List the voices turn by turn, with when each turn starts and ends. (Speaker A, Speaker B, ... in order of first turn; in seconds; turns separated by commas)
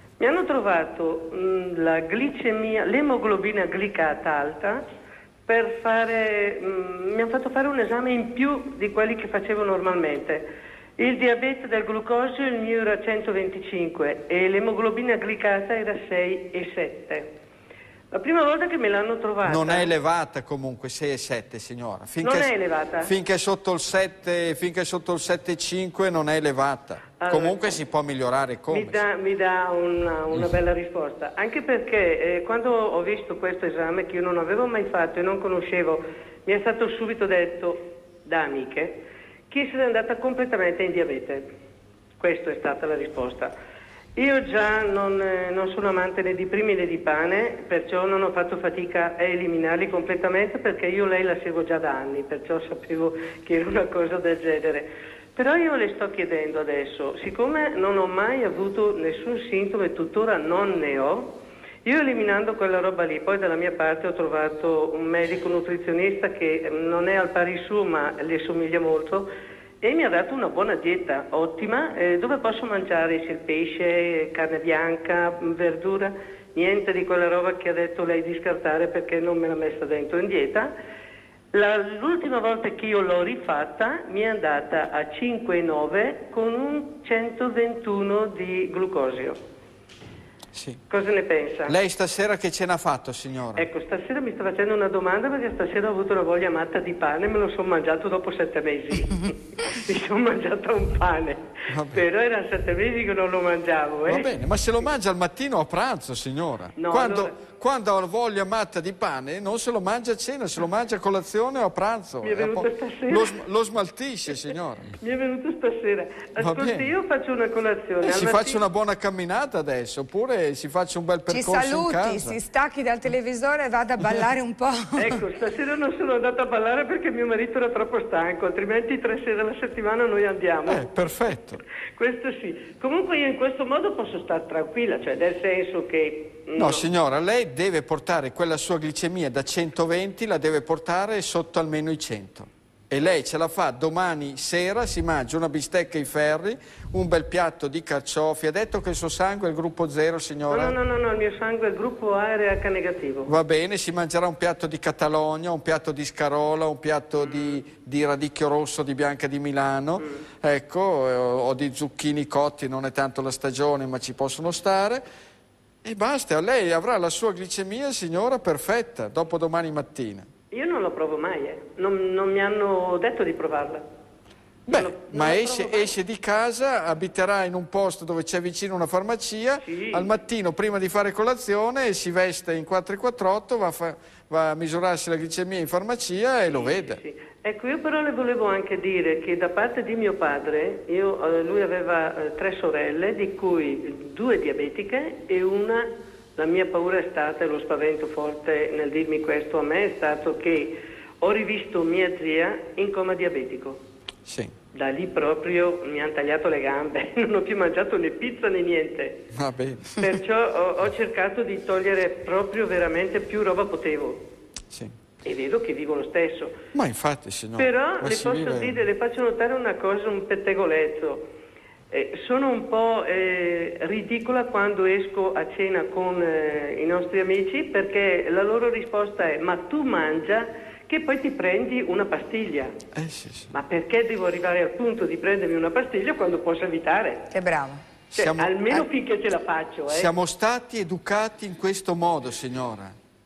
Speaker A: 0.2-4.8, Speaker A: 5.5-10.4, Speaker A: 11.0-17.3, Speaker A: 18.1-19.9, Speaker B: 19.4-22.5, Speaker A: 22.2-23.1, Speaker B: 23.0-29.0, Speaker A: 27.2-27.8, Speaker A: 28.7-39.0, Speaker A: 39.5-41.5, Speaker A: 42.2-43.5, Speaker A: 44.1-69.3, Speaker A: 69.8-80.7, Speaker A: 81.5-89.4, Speaker B: 90.5-90.8, Speaker A: 90.9-91.7, Speaker B: 91.7-93.7, Speaker A: 93.5-104.3, Speaker B: 101.7-102.0, Speaker B: 104.1-114.9, Speaker A: 106.8-107.3, Speaker A: 112.2-113.4, Speaker A: 115.0-118.6, Speaker B: 116.4-116.9, Speaker B: 118.0-122.4, Speaker C: 121.3-125.2, Speaker A: 125.0-130.8, Speaker B: 130.7-131.6, Speaker A: 131.9-136.9, Speaker B: 136.6-150.8, Speaker A: 150.5-153.3, Speaker B: 153.2-165.0, Speaker A: 157.2-157.6, Speaker B: 165.8-170.3, Speaker A: 170.5-173.8, Speaker B: 174.7-187.0, Speaker A: 174.7-175.9, Speaker A: 179.6-180.1, Speaker A: 186.5-203.8, Speaker B: 204.2-204.5, Speaker A: 204.7-209.2, Speaker B: 209.3-210.1, Speaker A: 209.9-214.2, Speaker A: 215.2-216.5, Speaker B: 216.7-218.8, Speaker A: 217.6-221.2, Speaker A: 221.9-232.7, Speaker B: 232.9-233.5, Speaker A: 233.5-237.2, Speaker C: 237.3-237.8, Speaker B: 238.1-238.8, Speaker A: 238.1-240.1, Speaker B: 239.9-242.9